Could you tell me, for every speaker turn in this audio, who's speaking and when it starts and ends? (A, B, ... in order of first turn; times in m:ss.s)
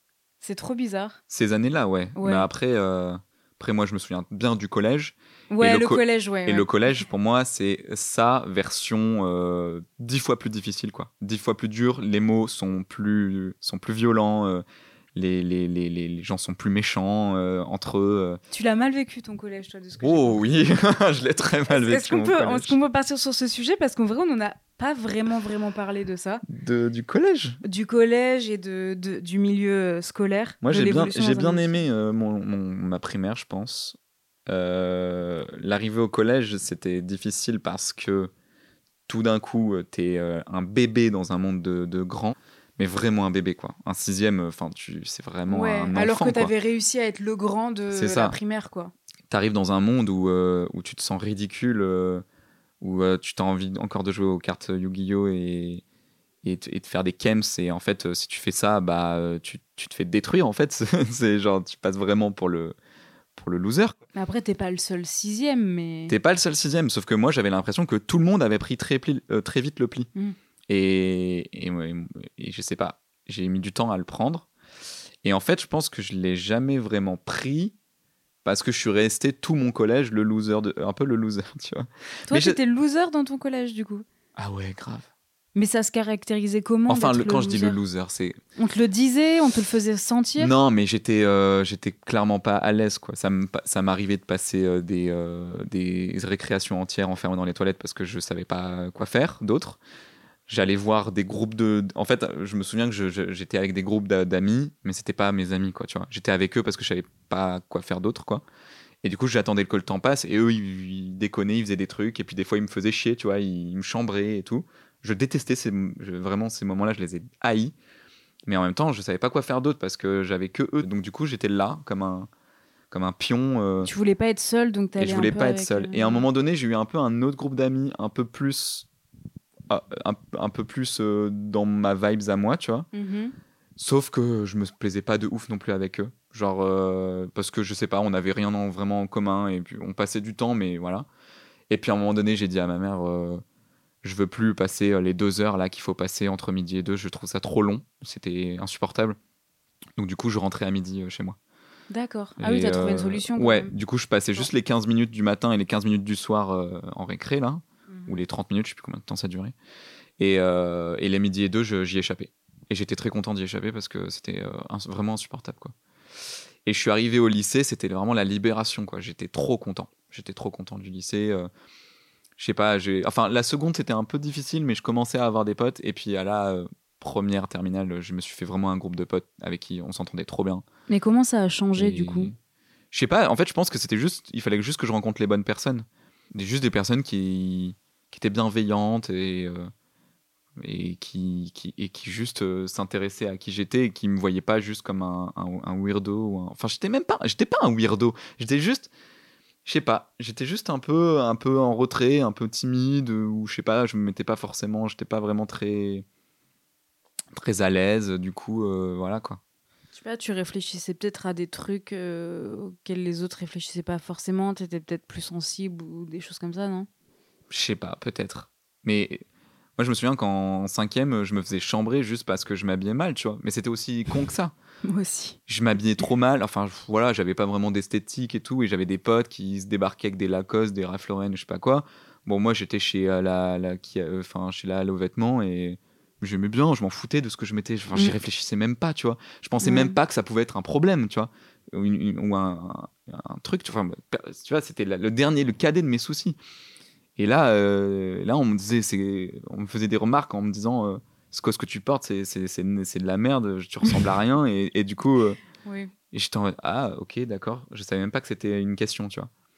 0:00.4-0:01.2 A
0:01.3-0:14.6 B
0:02.2-0:02.5 A
0:05.5-0:07.0 A
0:15.1-0:18.4 B
0:18.5-0:20.4 A
0:20.0-0:22.8 B
0:21.7-0:26.4 A
0:26.5-0:27.6 B
0:27.6-0:31.7 A
0:30.6-0:34.0 B
0:34.5-0:38.3 B
0:39.1-0:46.5 B
0:45.5-0:48.9 A
0:47.9-0:48.3 B
0:49.3-0:52.2 B
0:52.8-0:55.8 B
0:56.4-1:02.8 B
1:03.4-1:03.9 B
1:04.1-1:06.2 A
1:06.1-1:10.1 B
1:10.7-1:14.5 B
1:15.2-1:17.7 B
1:18.4-1:22.6 B
1:22.3-1:24.0 A
1:24.4-1:25.1 B
1:25.5-1:27.8 A
1:26.9-1:28.4 B
1:28.6-1:30.5 A
1:30.4-1:39.8 B
1:40.5-1:48.4 B
1:49.0-1:57.7 B
1:58.5-2:02.3 B
2:02.9-2:03.9 B
2:03.8-2:06.2 A
2:05.0-2:08.9 B
2:09.7-2:12.9 B
2:12.9-2:13.3 A
2:13.8-2:21.0 B
2:21.7-2:23.4 B
2:24.0-2:29.2 B
2:30.0-2:31.4 B
2:31.9-2:33.7 A
2:32.4-2:39.5 B
2:37.9-2:38.2 A
2:40.2-2:45.7 B
2:46.6-2:51.5 B
2:52.4-3:00.6 B
3:00.9-3:02.3 A
3:01.8-3:02.3 B
3:02.9-3:09.7 B
3:10.6-3:18.9 B
3:19.6-3:26.0 B
3:27.3-3:29.4 B
3:29.9-3:36.9 A
3:37.5-3:39.2 B
3:39.8-3:44.5 B
3:44.9-3:45.4 A
3:45.5-4:06.4 B
3:59.6-4:00.0 A
4:07.2-4:15.4 B
4:15.6-4:15.9 A
4:16.1-4:19.3 B